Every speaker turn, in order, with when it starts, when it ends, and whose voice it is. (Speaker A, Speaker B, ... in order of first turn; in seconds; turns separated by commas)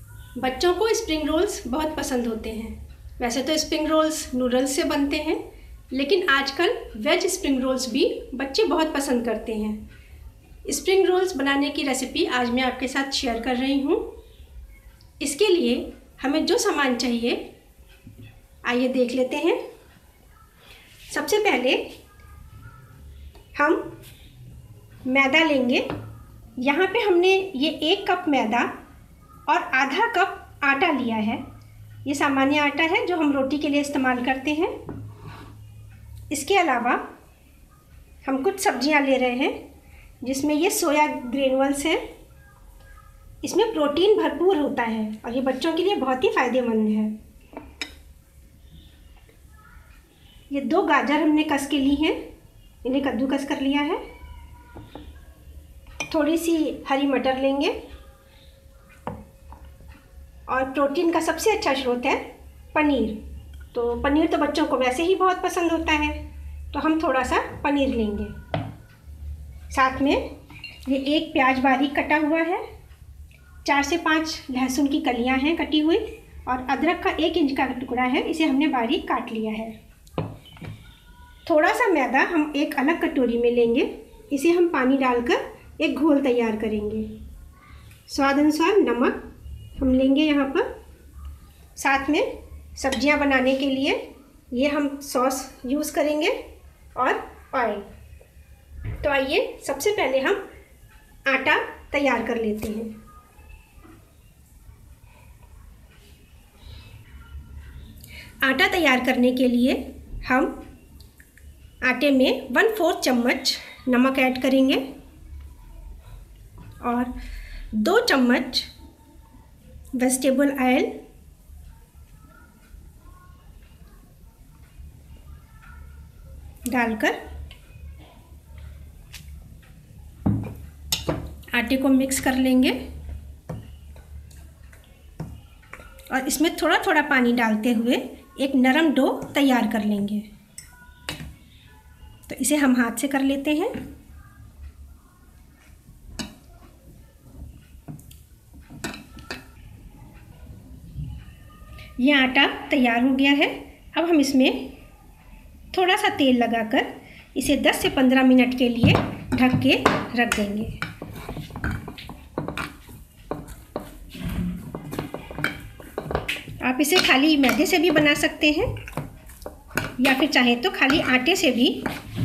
Speaker A: 0.3-5.4, Speaker A: 5.9-9.8, Speaker A: 10.7-14.1, Speaker A: 15.2-17.5, Speaker A: 18.6-19.6, Speaker A: 21.1-21.9, Speaker A: 23.5-23.9, Speaker A: 25.1-25.9, Speaker A: 26.6-28.7, Speaker A: 29.5-31.4, Speaker A: 32.0-34.7, Speaker A: 36.3-37.1, Speaker A: 38.2-39.5, Speaker A: 40.2-42.0, Speaker A: 43.4-47.1, Speaker A: 50.5-52.2, Speaker A: 52.8-54.0, Speaker A: 56.1-57.7, Speaker A: 60.5-63.2, Speaker A: 63.7-66.2, Speaker A: 66.7-68.3, Speaker A: 69.7-70.2, Speaker A: 70.8-72.6, Speaker A: 73.6-79.8, Speaker A: 81.5-87.1, Speaker A: 88.1-89.2, Speaker A: 89.8-90.7, Speaker A: 91.8-96.4, Speaker A: 97.0-97.8, Speaker A: 99.0-100.5, Speaker A: 101.3-102.9, Speaker A: 108.4-110.6, Speaker A: 111.8-114.8, Speaker A: 116.8-117.1, Speaker A: 117.7-118.7, Speaker A: 119.9-120.9, Speaker A: 126.7-127.2, Speaker A: 131.5-132.8, Speaker A: 136.1-140.3, Speaker A: 142.3-143.8, Speaker A: 152.0-154.8, Speaker A: 155.7-160.8, Speaker A: 166.6-168.7, Speaker A: 170.0-171.9